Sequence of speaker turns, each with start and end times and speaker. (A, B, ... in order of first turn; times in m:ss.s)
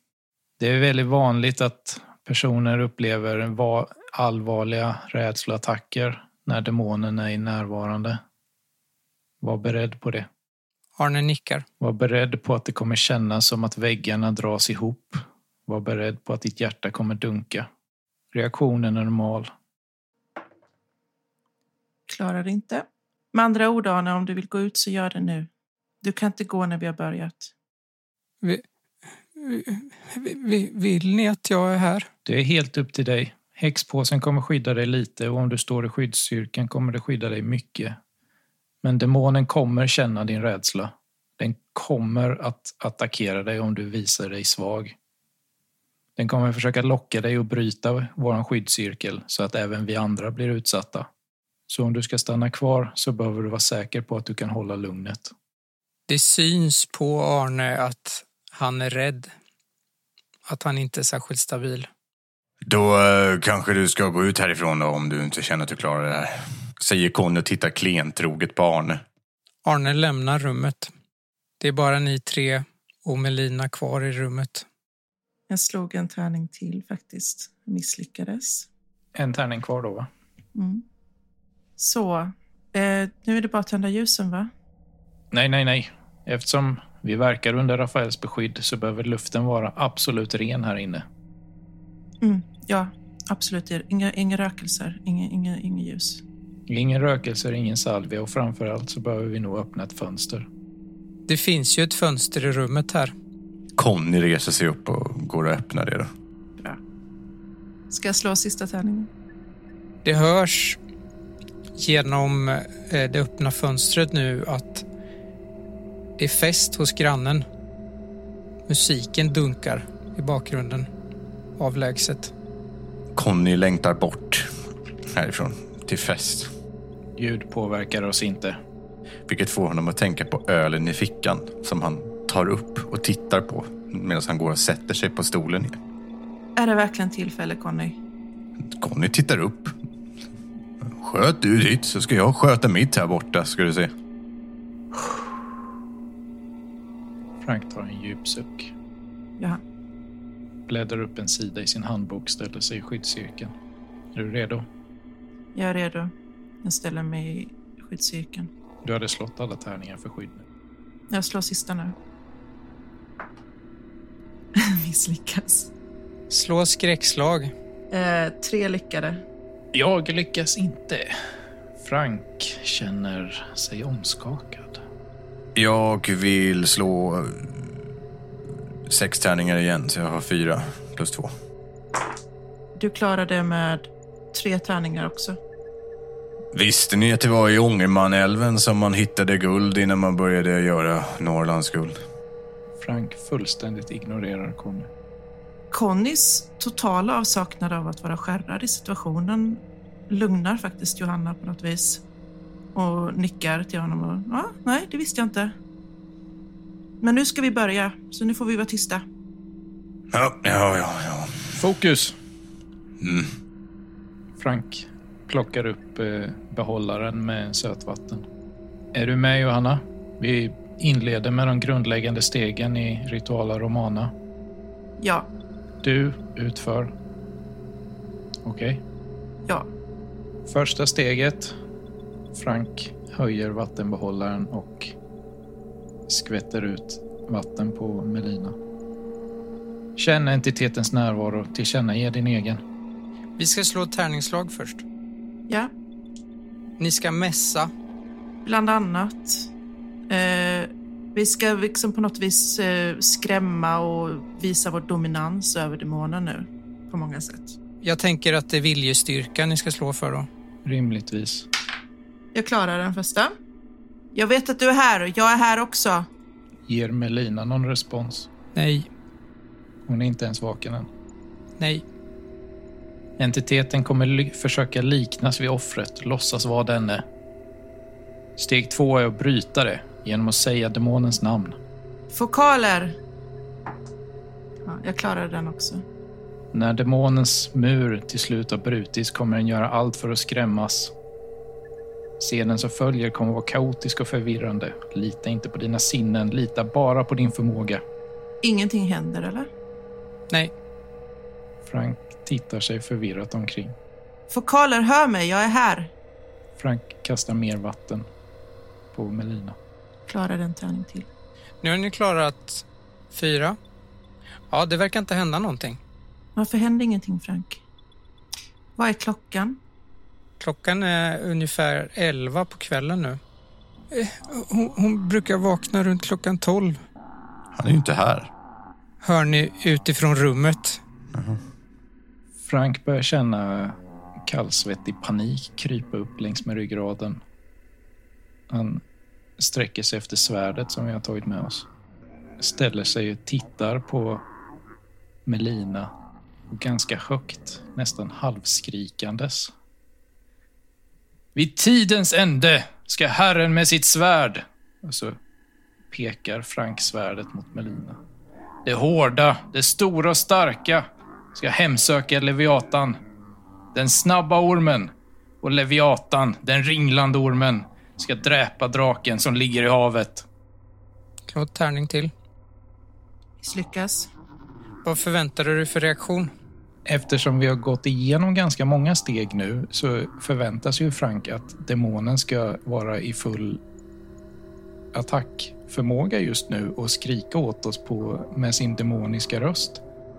0:00.6-0:08.2 A
0:09.4-0:10.3 A
0:11.0-0:11.6 B
0:11.8-0:17.7 A
0:18.3-0:19.5 A
0:22.1-0:25.5 C
0:26.0-0:27.5 C
0:29.4-0:32.1 B
0:32.2-0:38.0 A
0:38.8-0:45.0 A
0:46.2-0:51.1 A
0:51.7-0:55.3 A
0:56.1-0:59.3 B
1:00.5-1:01.9 B
1:02.6-1:09.0 D
1:09.6-1:10.9 B
1:11.6-1:14.7 B
1:15.5-1:18.7 C
1:19.2-1:20.1 A
1:20.6-1:20.8 C
1:21.8-1:24.5 C
1:25.3-1:31.0 A
1:32.2-1:36.2 C
1:36.7-1:40.5 A
1:41.3-1:43.1 B
1:43.8-1:46.1 D
1:47.9-1:49.1 C
1:50.0-1:50.8 B
1:51.8-1:54.9 B
1:56.2-1:57.4 B
1:58.7-2:00.9 B
2:01.6-2:02.3 B
2:03.2-2:04.5 D
2:05.1-2:06.5 D
2:07.2-2:08.6 A
2:09.3-2:15.8 D
2:16.6-2:18.0 C
2:18.7-2:19.7 D
2:20.9-2:23.9 D
2:27.4-2:28.7 A
2:30.7-2:33.5 A
2:34.1-2:34.7 A
2:35.6-2:36.1 C
2:36.6-2:38.5 C
2:38.8-2:40.4 A
2:41.1-2:42.0 C
2:44.6-2:45.7 C
2:46.3-2:47.5 B
2:47.9-2:49.2 C
2:49.7-2:51.2 A
2:51.8-2:54.8 A
2:55.6-2:57.6 D
2:58.9-3:01.3 D
3:02.8-3:05.4 C
3:06.5-3:12.0 D
3:12.8-3:14.9 A
3:15.7-3:22.0 C
3:22.7-3:25.5 C
3:27.0-3:29.0 C
3:30.1-3:31.5 D
3:31.5-3:32.2 A
3:33.0-3:33.3 D
3:34.4-3:38.3 A
3:38.9-3:44.1 A
3:45.0-3:45.3 C
3:45.8-3:46.9 A
3:48.4-3:48.8 A
3:50.5-3:51.5 A
3:52.3-3:54.9 A
3:56.1-3:58.6 A
4:00.0-4:02.6 A
4:03.4-4:04.8 B
4:06.8-4:07.7 B
4:08.4-4:09.5 C
4:10.1-4:17.6 C
4:17.8-4:20.3 B
4:20.6-4:21.5 A
4:22.3-4:23.3 C
4:24.1-4:26.1 C
4:26.7-4:28.3 A
4:28.5-4:28.9 B
4:29.9-4:30.9 A
4:31.6-4:31.8 B
4:33.2-4:37.0 A
4:38.4-4:41.6 A
4:42.1-4:43.0 C
4:44.6-4:45.8 C
4:46.5-4:50.9 A
4:52.2-4:57.8 A
4:58.4-4:59.5 C
5:01.6-5:03.8 A
5:04.3-5:05.9 C
5:06.6-5:08.1 A
5:08.9-5:09.6 A
5:10.1-5:11.1 C
5:11.6-5:13.6 B
5:14.5-5:15.8 B
5:16.4-5:17.6 C
5:18.8-5:19.6 C
5:20.4-5:23.2 B
5:23.9-5:26.8 B
5:27.6-5:28.3 D
5:29.0-5:30.8 B
5:31.1-5:31.4 D
5:32.4-5:37.2 A
5:38.5-5:38.8 A
5:39.4-5:41.7 A
5:42.4-5:44.2 A
5:45.3-5:45.9 A
5:46.5-5:49.5 A
5:51.4-5:55.2 A
5:55.9-5:58.0 A
5:58.6-6:00.8 A
6:01.3-6:03.0 A
6:03.7-6:04.9 A
6:05.4-6:10.2 A
6:11.3-6:12.1 B
6:13.4-6:14.1 C
6:14.8-6:16.3 B
6:16.9-6:23.6 A
6:24.9-6:29.8 A